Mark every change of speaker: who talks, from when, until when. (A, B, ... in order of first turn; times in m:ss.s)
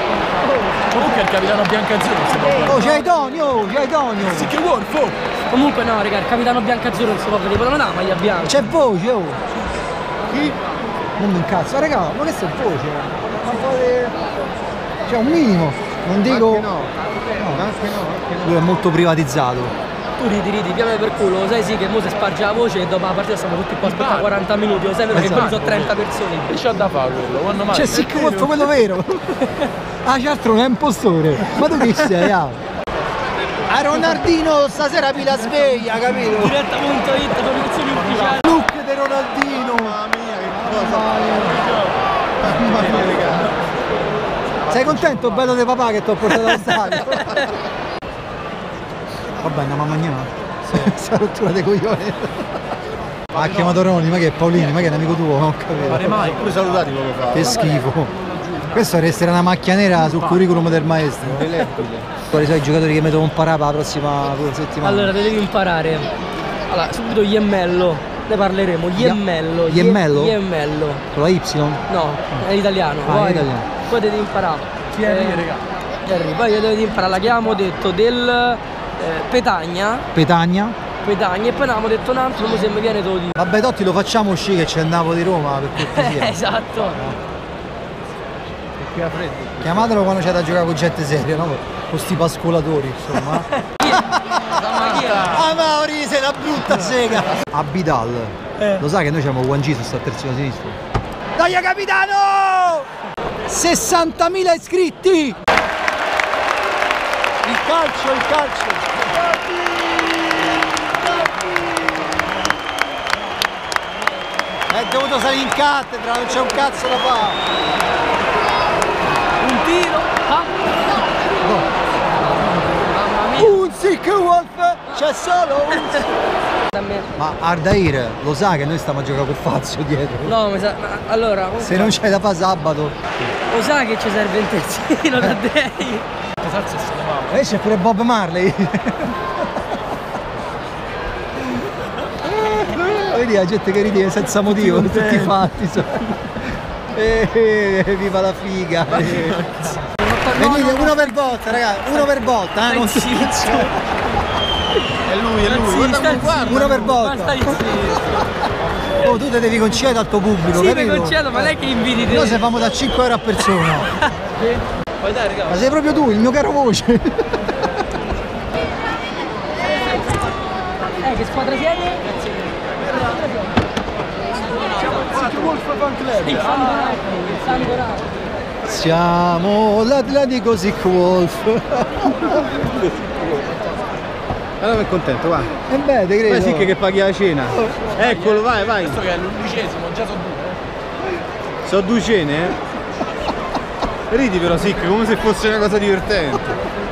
0:00.4-0:01.0 A
0:00.9-0:02.8 B
0:02.4-0:03.0 A
0:02.6-0:04.5 C
0:04.2-0:05.2 B
0:05.5-0:08.6 A
0:08.4-0:09.4 C
0:10.3-0:10.7 D
0:11.2-0:14.2 C
0:15.0-0:16.7 C
0:16.2-0:16.9 D
0:17.4-0:17.6 C
0:17.5-0:18.6 D
0:18.4-0:19.7 C
0:20.2-0:26.6 A
0:23.8-0:28.6 B
0:25.1-0:25.6 C
0:27.7-0:29.4 C
0:30.0-0:32.6 C
0:33.7-0:36.6 C
0:36.2-0:38.5 A
0:37.9-0:38.4 B
0:38.3-0:41.6 C
0:39.5-0:43.5 D
0:42.7-0:43.2 B
0:44.6-0:45.5 B
0:44.7-0:47.5 C
0:46.6-0:47.5 A
0:49.4-0:52.6 C
0:53.3-0:56.2 C
0:53.3-0:53.8 B
0:55.8-0:56.9 B
0:56.1-0:57.6 D
0:57.3-0:58.1 C
0:57.4-0:57.9 A
0:58.2-0:59.2 B
0:58.7-1:01.5 C
0:59.9-1:00.6 B
1:01.2-1:02.1 D
1:02.2-1:05.1 C
1:04.8-1:06.1 A
1:06.7-1:11.0 A
1:08.9-1:10.4 C
1:11.1-1:12.4 C
1:11.9-1:15.5 A
1:13.0-1:13.7 C
1:14.9-1:15.6 B
1:16.0-1:20.0 A
1:20.1-1:20.8 C
1:21.0-1:23.4 A
1:23.4-1:27.2 C
1:25.8-1:27.0 A
1:28.8-1:29.8 B
1:29.0-1:29.5 D
1:29.6-1:40.8 C
1:33.5-1:35.3 A
1:34.4-1:35.5 D
1:38.6-1:38.8 A
1:41.4-1:42.9 C
1:43.4-1:45.4 C
1:47.4-1:52.1 C
1:54.7-1:57.4 C
1:59.4-2:00.5 A
2:01.4-2:01.7 C
2:02.7-2:03.6 A
2:03.4-2:06.1 C
2:05.7-2:06.0 A
2:06.7-2:07.1 A
2:07.2-2:10.3 C
2:10.2-2:11.9 A
2:11.6-2:13.3 C
2:13.4-2:16.0 A
2:16.4-2:17.5 B
2:17.3-2:19.8 C
2:22.2-2:29.8 C
2:24.6-2:25.3 A
2:28.9-2:29.8 B
2:29.9-2:33.8 A
2:30.3-2:33.8 C
2:34.8-2:38.1 A
2:35.0-2:36.9 D
2:36.4-2:38.3 C
2:39.0-2:43.9 C
2:40.4-2:42.6 A
2:43.6-2:44.1 A
2:44.4-2:45.6 B
2:45.4-2:47.5 C
2:51.0-2:52.1 A
2:54.8-2:56.6 B
2:56.2-2:58.0 A
2:58.6-3:02.4 C
3:02.7-3:03.2 D
3:04.6-3:05.5 D
3:05.6-3:06.7 C
3:06.2-3:09.0 D
3:07.9-3:10.6 B
3:11.6-3:12.6 D
3:14.1-3:16.6 D